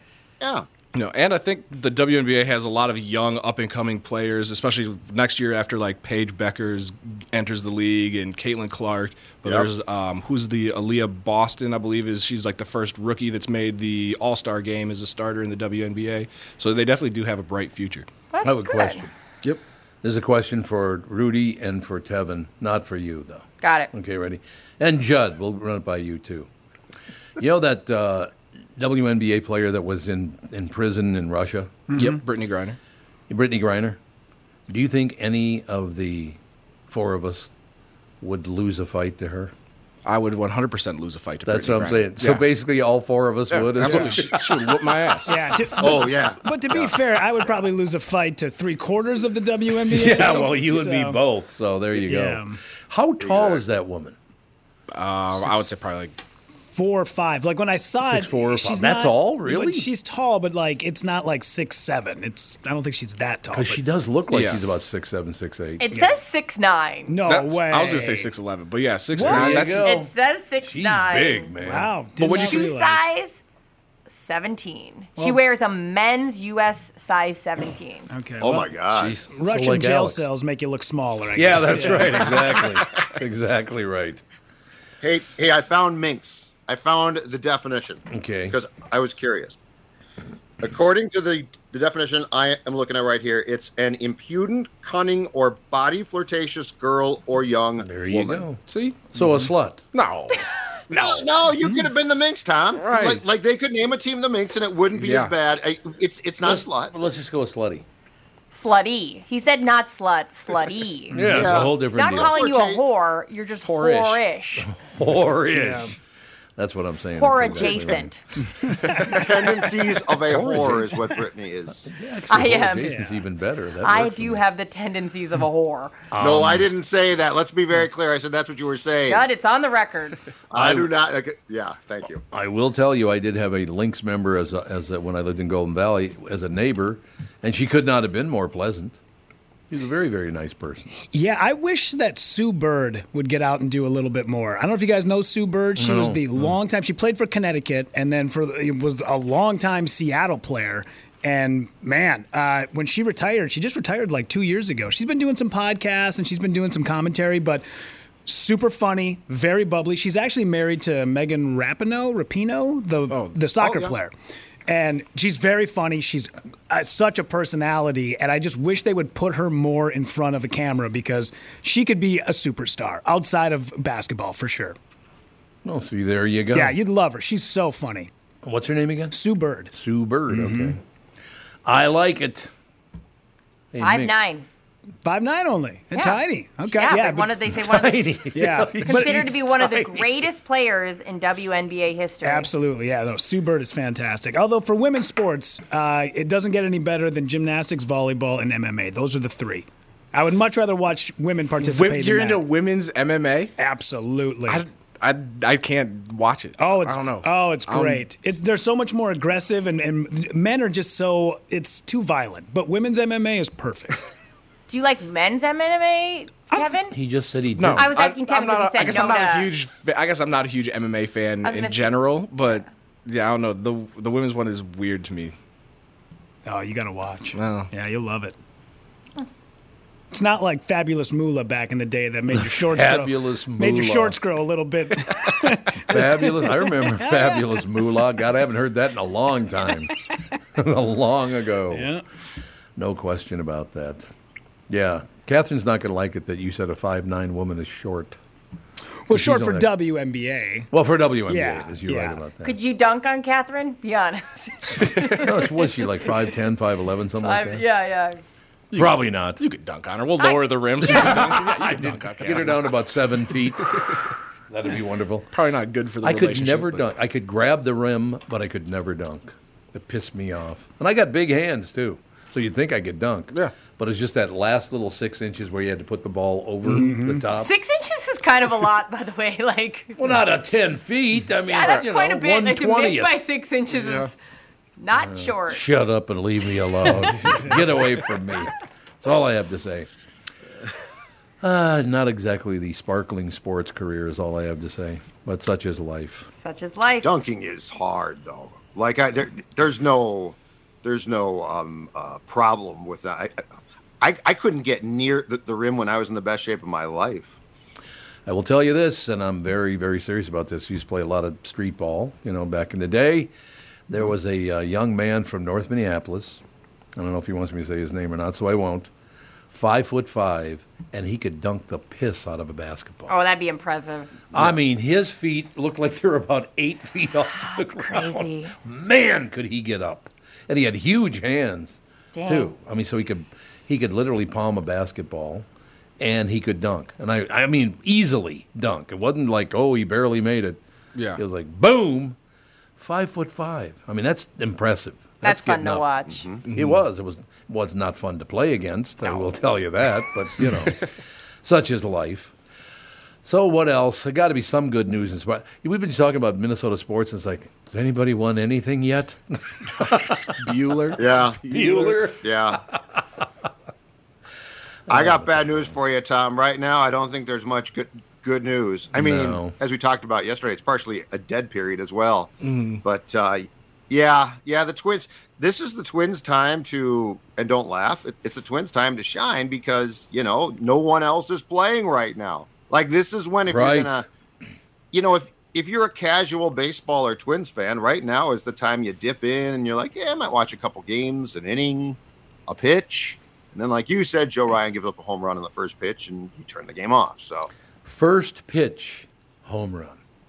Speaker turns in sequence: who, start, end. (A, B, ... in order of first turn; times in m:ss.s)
0:00.4-0:00.7 A
0:00.9-0:18.1 B
0:18.3-0:19.1 C
0:18.4-0:19.1 D
0:20.0-0:26.5 D
0:23.6-0:23.9 C
0:27.4-0:31.8 D
0:31.9-0:32.2 E
0:32.0-0:32.8 B
0:33.3-0:34.0 D
0:34.7-0:37.5 D
0:38.2-0:39.5 D
0:40.1-0:42.5 B
0:41.5-0:45.0 D
0:43.5-0:45.4 B
0:43.8-0:44.2 E
0:45.3-0:51.2 E
0:45.8-0:46.5 A
0:49.9-0:54.2 D
0:52.0-0:52.6 E
0:53.2-0:53.6 A
0:54.9-0:56.2 B
0:56.6-1:03.8 E
0:58.0-0:59.9 D
1:03.5-1:05.8 D
1:04.3-1:04.6 B
1:05.8-1:07.2 C
1:05.9-1:06.2 E
1:07.1-1:08.3 E
1:07.3-1:09.9 B
1:09.1-1:09.8 E
1:09.2-1:11.9 D
1:09.8-1:11.5 C
1:11.6-1:13.1 E
1:12.2-1:12.6 B
1:12.2-1:13.4 C
1:14.1-1:18.1 C
1:18.1-1:18.7 E
1:18.4-1:19.2 A
1:18.9-1:19.3 B
1:19.3-1:22.6 E
1:19.5-1:20.2 D
1:21.4-1:24.2 D
1:25.0-1:29.6 A
1:28.1-1:28.6 D
1:30.6-1:38.4 A
1:37.8-1:38.6 D
1:38.6-1:41.2 B
1:39.1-1:39.8 D
1:40.9-1:46.9 A
1:42.8-1:43.2 B
1:45.0-1:45.3 B
1:46.4-1:47.8 D
1:48.5-1:51.2 C
1:51.1-1:52.4 D
1:51.2-1:51.4 E
1:51.2-1:52.8 A
1:51.9-1:54.7 C
1:53.6-1:54.2 B
1:54.6-1:56.0 D
1:55.5-1:56.0 E
1:56.6-1:58.2 D
1:57.2-1:58.2 C
1:58.8-1:59.2 B
1:59.0-2:01.9 A
2:00.3-2:00.9 D
2:01.8-2:04.4 D
2:02.3-2:03.0 C
2:02.8-2:03.2 E
2:03.8-2:06.0 C
2:06.1-2:06.7 D
2:06.2-2:09.3 A
2:09.0-2:10.2 C
2:10.5-2:12.2 A
2:10.5-2:10.9 D
2:12.3-2:19.0 D
2:19.7-2:20.9 D
2:21.1-2:37.6 E
2:25.8-2:26.5 D
2:38.2-2:44.1 E
2:43.1-2:43.4 B
2:43.6-2:43.9 A
2:44.7-2:54.8 E
2:55.6-2:56.8 D
2:56.5-2:58.1 E
2:58.4-2:59.2 D
2:59.1-2:59.7 E
2:59.7-3:00.8 D
3:00.3-3:00.8 E
3:01.6-3:02.5 D
3:03.7-3:04.2 D
3:03.8-3:04.5 C
3:05.0-3:07.4 E
3:05.9-3:08.2 C
3:07.5-3:10.1 D
3:08.3-3:09.2 E
3:08.8-3:12.5 C
3:12.2-3:22.4 E
3:21.6-3:23.5 B
3:23.6-3:24.6 E
3:24.5-3:28.0 B
3:26.6-3:34.0 E
3:34.7-3:37.0 C
3:36.9-3:37.9 D
3:37.6-3:45.3 B
3:37.8-3:39.5 C
3:41.4-3:41.9 C
3:46.4-3:48.4 E
3:47.3-3:47.7 B
3:50.1-3:57.5 E
3:52.3-3:54.2 D
3:55.7-3:59.9 D
4:00.6-4:01.9 D
4:01.7-4:02.0 E
4:02.8-4:04.1 D
4:04.7-4:08.2 D
4:09.1-4:10.7 E
4:09.1-4:09.7 D
4:10.7-4:12.6 D
4:11.3-4:12.2 E
4:12.4-4:15.5 C
4:15.0-4:17.6 D
4:17.2-4:18.2 C
4:18.7-4:22.7 B
4:18.8-4:19.4 D
4:20.2-4:21.3 C
4:20.8-4:24.0 D
4:23.6-4:24.0 B
4:24.5-4:25.3 D
4:25.3-4:26.9 B
4:26.0-4:37.5 D
4:36.7-4:37.2 E
4:37.3-4:40.0 C
4:40.0-4:43.1 D
4:41.5-4:44.1 C
4:43.7-4:44.1 B
4:44.8-4:45.6 C
4:45.0-4:49.9 D
4:51.4-4:56.3 D
4:56.4-4:57.1 C
4:57.0-5:03.4 A
5:04.0-5:07.4 A
5:08.3-5:13.3 D
5:13.9-5:16.4 D
5:17.0-5:18.9 D
5:19.5-5:23.1 D
5:23.1-5:24.2 C
5:24.3-5:35.5 D
5:27.4-5:28.5 C
5:32.1-5:32.5 C
5:36.0-5:40.6 D
5:41.0-5:41.2 B
5:41.2-5:42.2 D
5:42.8-5:45.9 D
5:45.2-5:46.3 C
5:46.1-5:46.4 A
5:46.4-5:46.8 B
5:46.5-5:50.8 D
5:50.4-5:50.8 B
5:51.4-5:52.4 D
5:53.2-6:00.5 D
6:00.4-6:02.0 B
6:01.0-6:01.4 A
6:01.5-6:03.2 D
6:02.2-6:02.6 A
6:04.9-6:05.7 D
6:04.9-6:24.1 A
6:08.9-6:09.6 D
6:12.4-6:12.8 B
6:23.5-6:24.0 D
6:24.9-6:37.5 A
6:37.8-6:40.0 D